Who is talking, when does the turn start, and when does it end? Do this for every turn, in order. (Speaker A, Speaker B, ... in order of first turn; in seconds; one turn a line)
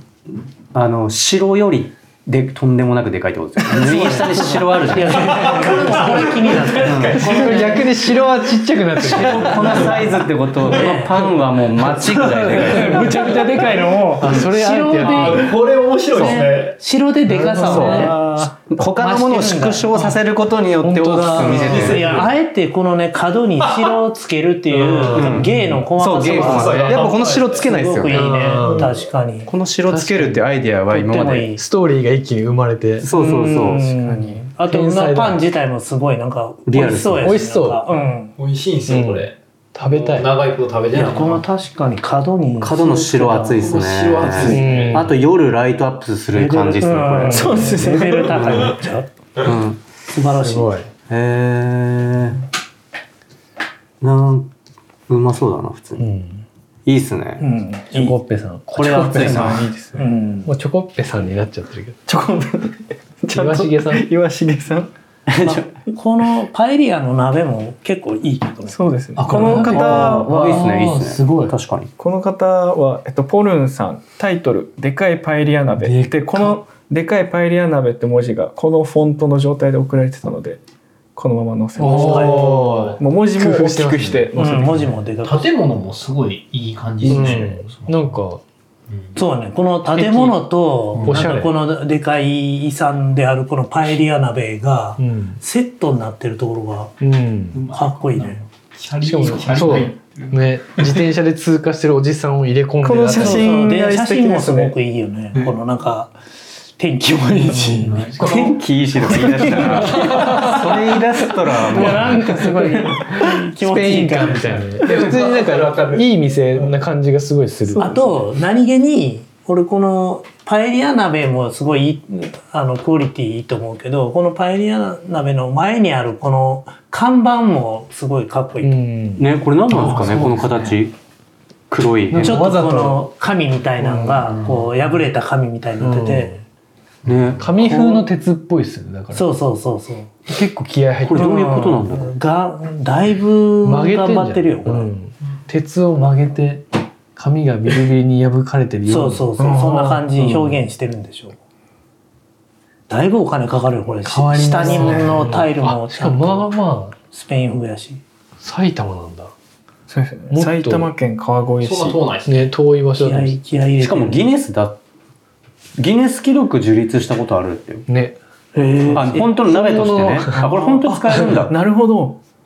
Speaker A: 0.7-6.1
Speaker B: 3.8-7.9
Speaker C: 5.2-7.8
Speaker A: 6.8-7.6
Speaker D: 7.1-9.9
Speaker A: 9.0-13.2
Speaker B: 9.6-10.1
Speaker B: 10.6-11.4
Speaker D: 12.2-15.5
Speaker B: 12.4-15.6
Speaker C: 14.9-16.8
Speaker B: 16.1-18.2
Speaker D: 17.3-18.1
Speaker A: 17.6-18.2
Speaker E: 17.7-18.5
Speaker A: 18.7-22.2
Speaker B: 18.8-20.1
Speaker D: 20.8-22.2
Speaker B: 21.3-29.5
Speaker C: 21.6-22.3
Speaker C: 23.6-24.0
Speaker D: 24.7-25.8
Speaker A: 25.1-28.7
Speaker C: 26.2-27.7
Speaker D: 28.1-29.0
Speaker A: 29.4-31.5
Speaker D: 29.9-30.4
Speaker B: 30.9-31.6
Speaker D: 31.5-35.4
Speaker A: 33.0-33.9
Speaker B: 33.1-38.3
Speaker A: 36.6-37.4
Speaker D: 37.2-37.8
Speaker C: 38.4-41.4
Speaker D: 38.9-40.3
Speaker B: 40.9-44.6
Speaker A: 42.6-47.8
Speaker C: 43.5-45.1
Speaker D: 44.4-45.1
Speaker B: 46.3-49.1
Speaker E: 47.2-48.7
Speaker A: 48.4-48.7
Speaker A: 49.4-49.9
Speaker B: 50.1-50.8
Speaker D: 50.4-50.9
Speaker A: 51.0-52.4
Speaker A: 54.0-54.5
Speaker A: 55.1-56.1
Speaker D: 56.0-56.4
Speaker A: 56.9-57.4
Speaker B: 57.4-58.2
Speaker D: 57.9-62.0
Speaker A: 58.7-59.7
Speaker B: 59.2-60.5
Speaker E: 62.1-64.9
Speaker D: 63.3-64.1
Speaker A: 65.3-65.7
Speaker B: 65.4-68.8
Speaker E: 68.7-70.7
Speaker D: 69.2-71.5
Speaker A: 69.3-71.9
Speaker E: 72.0-80.6
Speaker D: 75.8-76.5
Speaker E: 81.2-84.9
Speaker D: 81.8-84.6
Speaker B: 81.8-82.8
Speaker B: 84.3-85.5
Speaker C: 85.2-88.2
Speaker D: 87.0-88.4
Speaker B: 89.2-96.9
Speaker D: 89.9-90.4
Speaker C: 90.9-91.2
Speaker D: 91.0-91.5
Speaker D: 95.0-95.4
Speaker D: 97.0-97.6
Speaker C: 97.5-101.0
Speaker B: 97.7-98.4
Speaker D: 99.0-103.6
Speaker E: 102.8-104.7
Speaker B: 103.1-106.1
Speaker B: 106.8-110.8
Speaker D: 107.5-108.4
Speaker C: 107.7-108.4
Speaker A: 108.2-112.5
Speaker D: 109.5-110.8
Speaker B: 111.5-114.8
Speaker D: 111.7-118.2
Speaker C: 114.8-116.1
Speaker B: 117.8-128.8
Speaker D: 128.6-130.7
Speaker A: 129.2-130.9
Speaker A: 131.7-132.5
Speaker D: 132.1-133.0
Speaker B: 132.2-136.3
Speaker D: 133.8-134.5
Speaker D: 135.8-136.4
Speaker A: 137.0-138.0
Speaker D: 137.4-139.3
Speaker B: 139.1-140.1
Speaker D: 140.3-141.4
Speaker A: 141.0-142.1
Speaker B: 141.1-144.9
Speaker D: 143.6-149.3
Speaker B: 148.9-151.3
Speaker E: 149.4-150.0
Speaker D: 150.2-150.6
Speaker B: 152.9-156.5
Speaker D: 154.0-157.0
Speaker E: 154.7-155.2
Speaker B: 157.0-158.0
Speaker D: 158.4-159.3
Speaker E: 159.9-162.0
Speaker D: 160.3-160.9
Speaker C: 161.6-162.5
Speaker D: 162.2-163.4
Speaker B: 163.0-164.3
Speaker A: 163.8-164.8
Speaker A: 165.8-167.9
Speaker D: 167.9-168.2
Speaker B: 168.5-169.3
Speaker A: 168.9-171.6
Speaker D: 168.9-170.5
Speaker E: 170.3-172.2